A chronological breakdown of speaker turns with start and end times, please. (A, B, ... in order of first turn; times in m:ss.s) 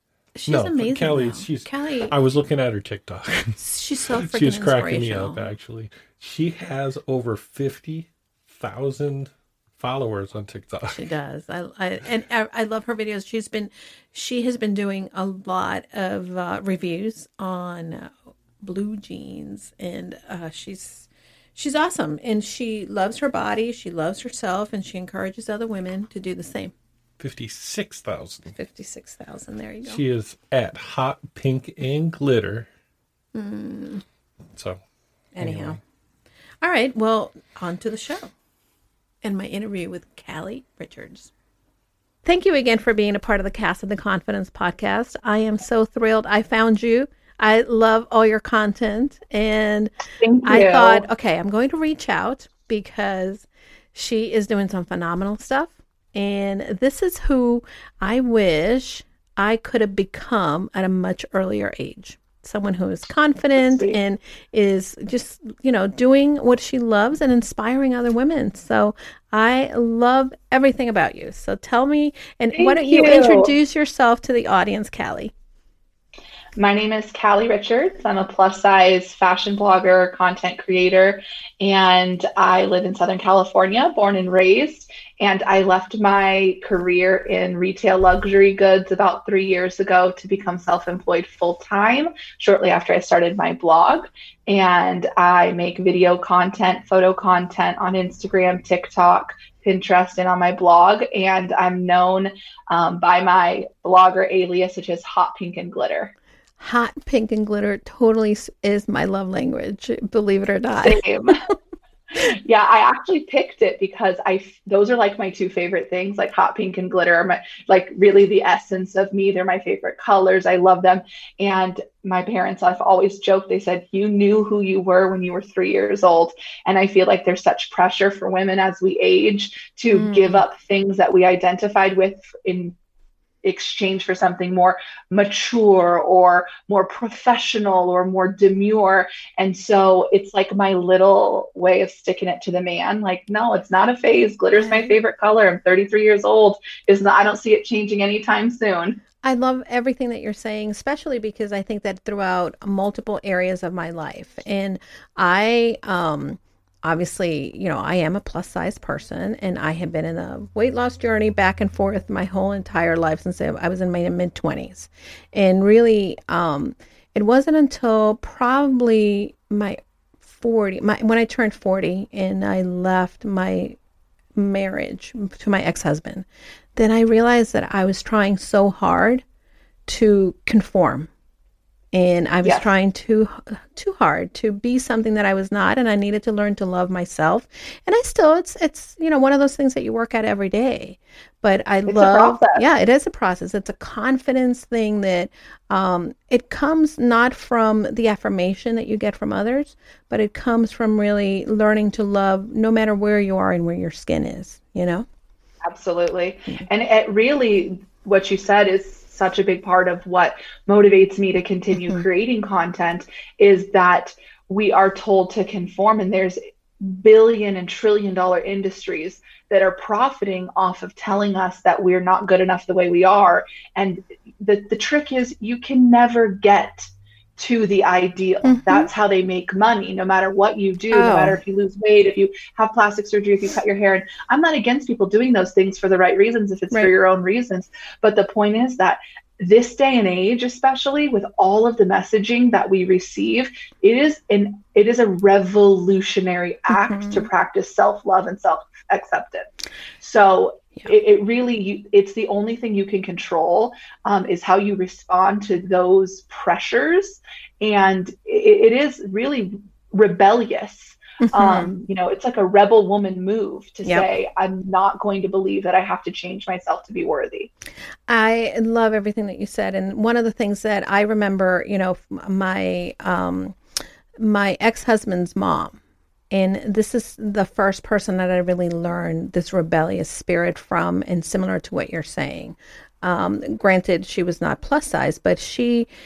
0:00.3-0:02.1 A
0:00.5-0:11.1 B
0:03.6-0:05.5 A
0:10.9-0:26.7 A
0:27.2-0:28.5 B
0:28.5-0:30.0 A
0:29.9-0:32.7 B
0:33.3-0:34.0 A
0:34.5-0:34.8 B
0:35.3-0:35.8 A
0:35.4-0:35.8 B
0:36.6-0:38.3 A
0:39.2-0:41.3 A
0:42.2-0:49.9 A
0:50.2-0:51.0 C
0:50.4-1:15.3 A
1:03.6-1:04.0 C
1:12.5-1:13.5 C
1:16.6-1:46.1 C
1:46.6-1:51.5 A
1:50.8-1:51.4 C
1:52.2-2:12.7 C
2:09.9-2:10.4 A
2:13.4-2:29.0 C
2:24.6-2:25.0 A
2:29.2-2:53.8 A
2:54.4-2:56.2 A
2:56.8-2:59.2 A
2:59.9-3:01.1 A
3:01.9-3:25.0 A
3:02.4-3:02.7 C
3:11.8-3:12.6 C
3:25.6-4:09.5 C
3:31.8-3:32.0 A
3:48.4-3:48.9 A
3:50.9-3:51.4 A
4:06.7-4:07.3 A
4:10.0-4:27.5 C
4:21.2-4:21.7 A
4:28.1-4:33.6 A
4:34.2-4:35.8 A
4:36.3-4:45.9 A